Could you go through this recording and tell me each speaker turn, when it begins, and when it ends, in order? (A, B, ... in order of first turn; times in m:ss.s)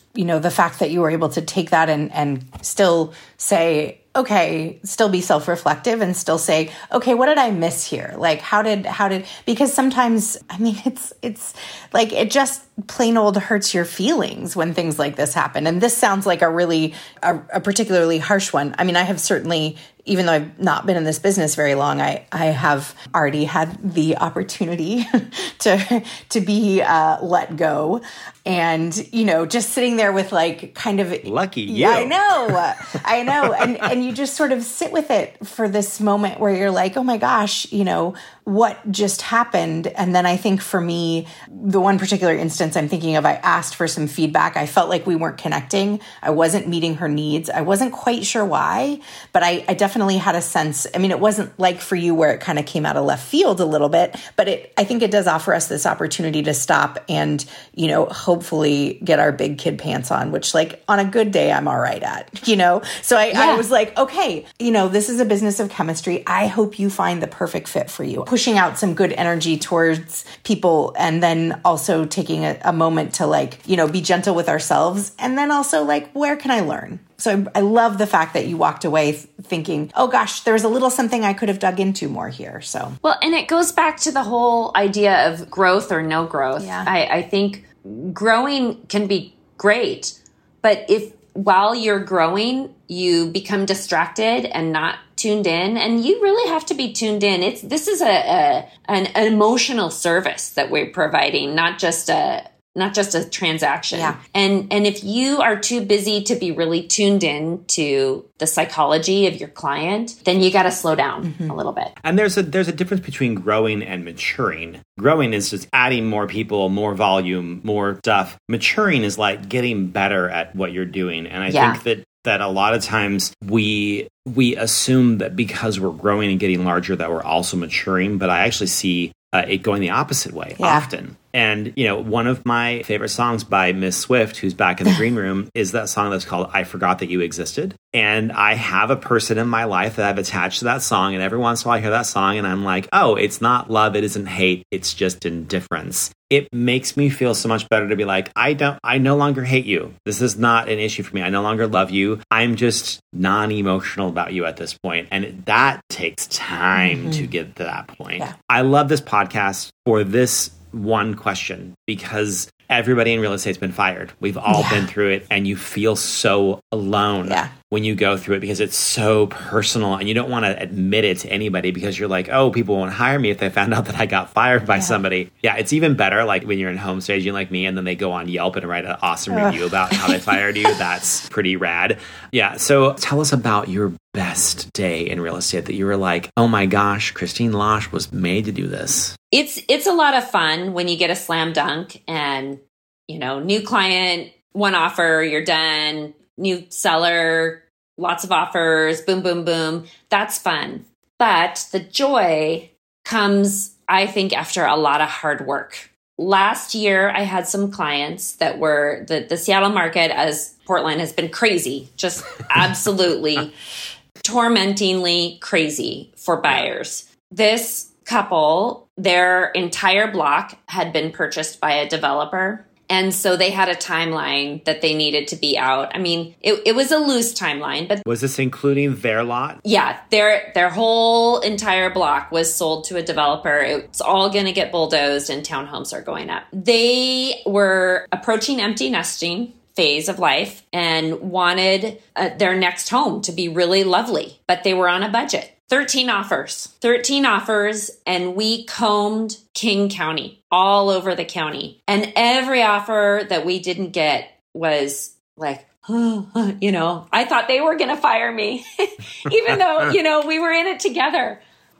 0:00.1-1:23.0 A
0:31.2-0:32.9 B
1:03.3-1:03.6 C
1:23.0-1:51.9 C
1:26.6-1:26.9 A
1:43.9-1:44.2 A
1:51.2-1:51.5 A
1:52.0-3:09.2 B
2:01.5-2:01.8 C
2:10.6-2:10.9 A
2:36.8-2:37.2 A
2:44.5-2:44.8 A
2:47.2-2:47.5 A
2:59.3-3:00.2 A
3:09.3-3:33.5 C
3:34.2-3:48.0 C
3:48.0-3:49.6 B
3:49.6-4:21.4 C